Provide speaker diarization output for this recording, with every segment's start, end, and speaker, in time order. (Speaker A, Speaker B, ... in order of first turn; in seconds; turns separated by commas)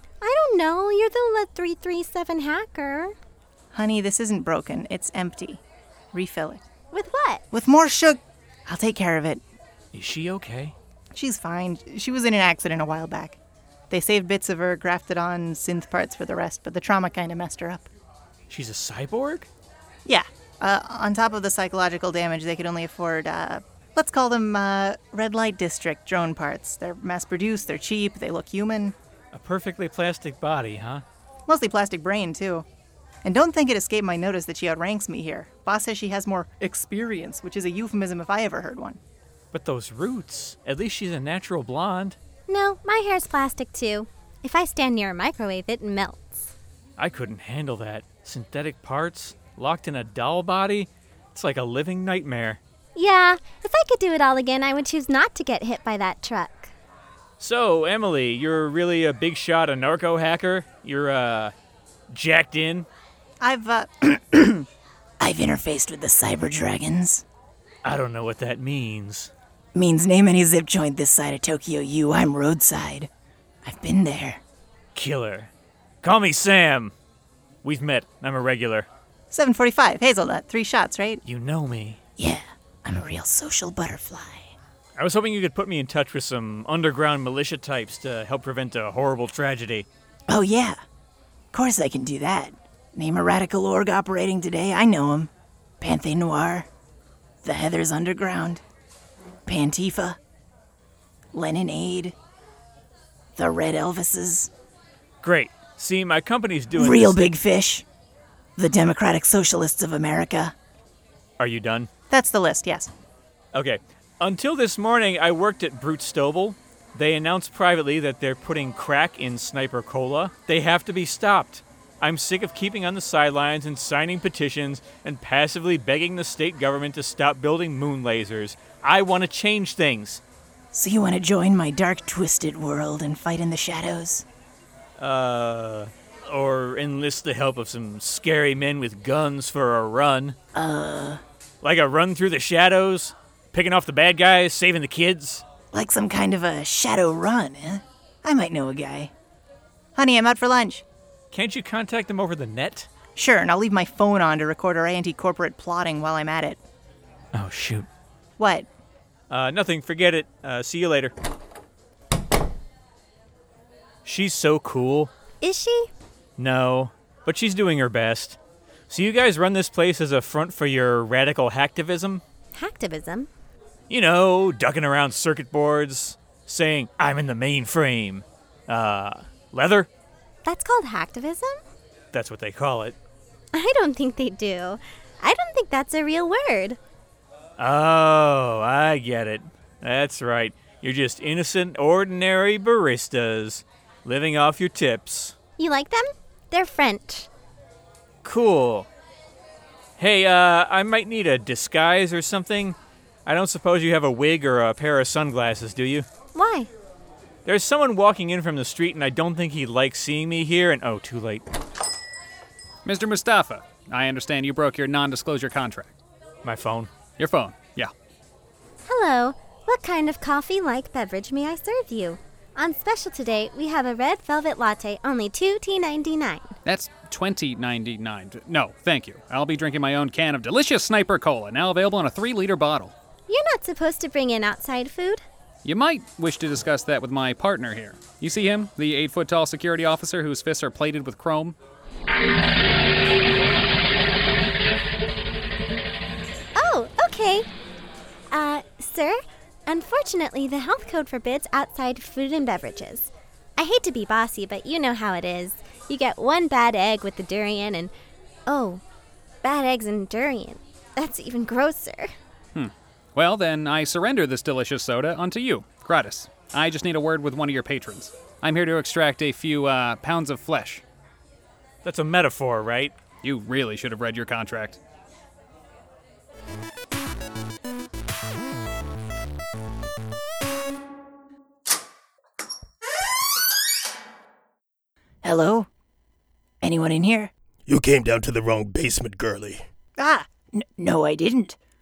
Speaker A: 0.2-3.1, Speaker B: 3.7-6.6, Speaker A: 6.9-7.4, Speaker B: 7.5-9.4, Speaker C: 9.9-10.7, Speaker B: 11.1-13.4, Speaker B: 13.9-17.9, Speaker C: 18.5-19.5, Speaker B: 20.1-28.9, Speaker C: 29.3-31.0, Speaker B: 31.5-32.6, Speaker B: 33.2-39.0, Speaker C: 39.5-42.2, Speaker A: 42.5-46.5, Speaker C: 47.0-52.6, Speaker A: 52.9-56.7, Speaker C: 57.4-61.5, Speaker C: 62.1-62.9, Speaker B: 63.4-64.7, Speaker B: 65.2-67.2, Speaker C: 67.8-69.3, Speaker B: 69.7-73.1, Speaker B: 73.6-74.4, Speaker C: 74.9-75.5, Speaker C: 76.0-76.9, Speaker C: 77.6-78.9, Speaker B: 79.3-81.2, Speaker C: 81.2-82.0, Speaker B: 82.2-84.5, Speaker C: 85.0-89.9, Speaker B: 90.3-90.8, Speaker B: 91.5-96.7, Speaker B: 97.4-98.6, Speaker B: 99.5-100.2, Speaker B: 101.3-102.1, Speaker B: 103.3-104.5, Speaker C: 105.2-107.3, Speaker B: 106.8-107.8, Speaker B: 108.6-110.5, Speaker C: 111.4-111.9, Speaker B: 112.1-112.9, Speaker C: 113.5-130.2, Speaker B: 130.7-134.2, Speaker C: 135.0-140.3, Speaker B: 140.5-141.2, Speaker C: 141.6-145.4, Speaker B: 145.7-149.1, Speaker B: 149.9-150.8, Speaker C: 151.3-152.9, Speaker B: 153.2-156.6, Speaker C: 157.3-157.9, Speaker B: 158.4-158.7, Speaker C: 159.3-161.1, Speaker C: 164.0-165.1, Speaker A: 165.4-165.9, Speaker C: 166.4-168.4, Speaker C: 168.9-172.2, Speaker A: 172.5-173.3, Speaker C: 173.9-179.9, Speaker A: 180.4-181.6, Speaker C: 182.1-183.0, Speaker A: 183.5-186.8, Speaker C: 187.6-195.3, Speaker A: 195.6-197.3, Speaker C: 198.2-198.9, Speaker C: 200.0-206.1, Speaker A: 206.3-206.7, Speaker C: 207.4-211.4, Speaker D: 212.8-215.9, Speaker C: 216.4-216.9, Speaker D: 217.2-217.9, Speaker A: 218.8-226.6, Speaker D: 226.6-232.9, Speaker A: 233.3-235.2, Speaker D: 235.6-241.6, Speaker A: 246.6-247.5, Speaker A: 248.3-257.9, Speaker A: 258.5-258.8, Speaker A: 259.4-262.1, Speaker D: 262.5-270.8, Speaker C: 271.8-272.9, Speaker D: 273.2-274.8, Speaker B: 285.2-285.7, Speaker B: 286.6-287.3, Speaker E: 287.7-289.6, Speaker B: 290.0-291.6